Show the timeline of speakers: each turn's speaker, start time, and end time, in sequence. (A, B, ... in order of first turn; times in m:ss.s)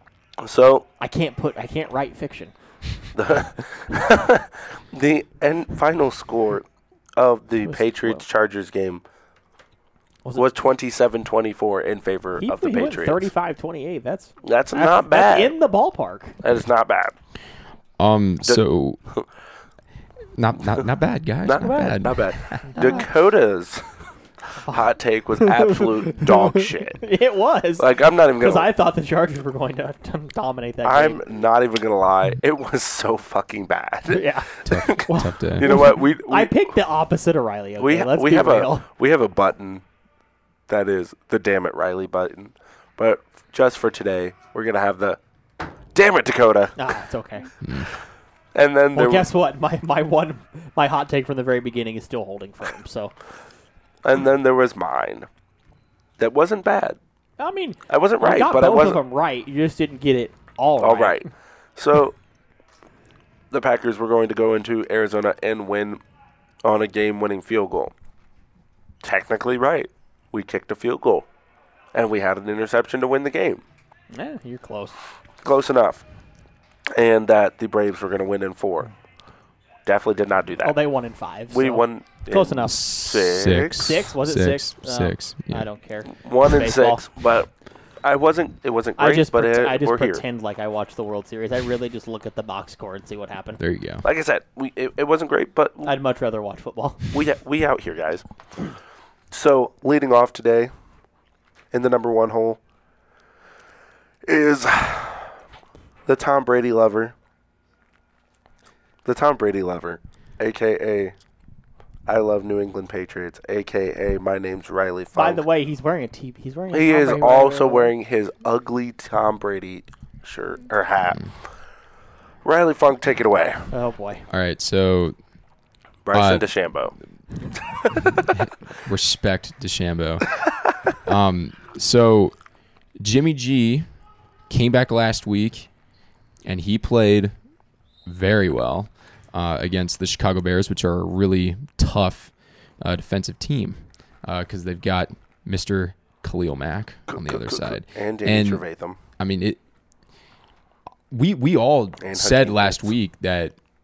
0:00.4-0:00.9 A
0:01.0-0:02.5 B
0:03.2-0:09.0 A
0:07.6-0:08.2 B
0:10.4-0:13.3 A
0:12.4-0:16.4 B
0:14.4-0:15.5 A
0:16.4-0:17.1 A
0:18.0-0:19.0 C
0:18.4-0:19.2 A
0:20.4-0:22.6 C
0:21.4-0:23.9 A
0:22.8-0:23.0 B
0:24.6-0:27.0 A
0:24.7-0:31.2 B
0:27.8-0:28.7 A
0:30.8-0:36.6 A
0:34.1-0:38.8 B
0:34.6-0:35.7 C
0:37.8-0:39.8 A
0:40.7-0:45.2 A
0:45.9-0:46.8 A
0:46.8-0:47.5 B
0:48.6-0:49.3 A
0:49.0-0:53.1 B
0:54.0-0:55.3 A
0:56.2-0:57.0 A
0:57.4-1:01.2 B
0:57.9-0:59.0 A
1:00.8-1:02.2 A
1:03.5-1:06.0 A
1:06.6-1:07.9 A
1:09.0-1:11.3 A
1:11.9-1:13.6 A
1:14.1-1:15.0 B
1:15.4-1:16.0 A
1:17.0-1:18.9 A
1:19.9-1:20.8 A
1:20.6-1:22.9 B
1:21.5-1:23.8 A
1:22.7-1:25.7 C
1:23.6-1:27.0 B
1:26.1-1:27.5 A
1:28.0-1:30.2 A
1:29.0-1:33.6 B
1:33.6-1:34.0 C
1:34.0-1:36.0 A
1:35.8-1:37.2 B
1:37.1-1:38.2 A
1:39.3-1:40.7 A
1:41.7-1:42.6 A
1:44.3-1:45.3 A
1:46.1-1:47.1 A
1:49.0-1:51.2 A
1:52.1-1:55.4 A
1:55.2-1:57.9 B
1:56.7-2:01.2 A
2:02.4-2:03.7 A
2:03.7-2:04.3 B
2:04.3-2:05.2 C
2:06.0-2:07.0 A
2:06.1-2:06.5 C
2:07.6-2:08.2 A
2:08.0-2:12.3 C
2:13.0-2:13.9 C
2:14.5-2:15.7 C
2:16.4-2:17.3 C
2:18.1-2:28.6 C
2:27.1-2:29.0 A
2:29.2-2:29.6 C
2:31.1-2:33.6 C
2:32.0-2:32.9 A